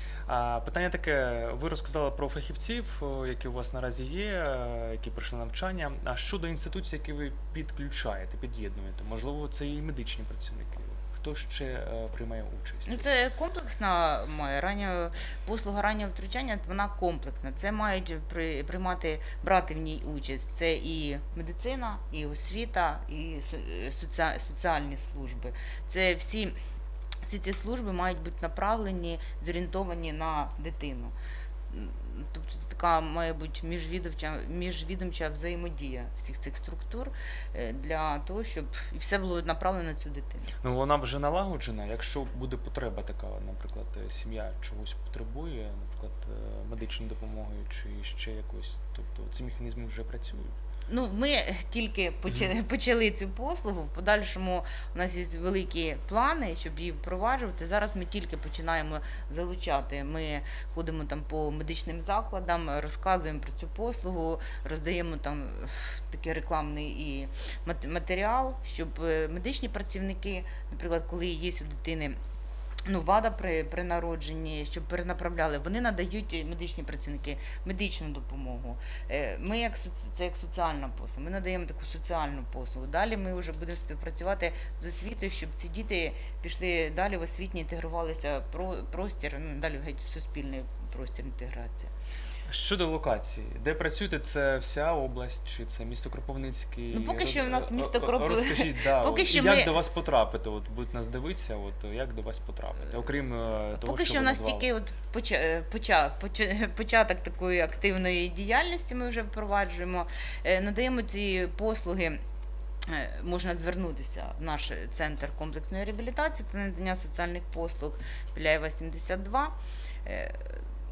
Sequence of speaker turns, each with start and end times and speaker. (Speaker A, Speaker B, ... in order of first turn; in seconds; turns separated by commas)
Speaker A: 0.3-13.1, Speaker B: 12.9-26.6, Speaker B: 27.2-31.1, Speaker B: 31.7-40.5, Speaker A: 40.6-50.5, Speaker B: 50.9-72.2, Speaker B: 72.8-91.9, Speaker A: 92.5-104.7, Speaker B: 96.9-99.7, Speaker B: 103.8-112.2, Speaker B: 112.8-120.6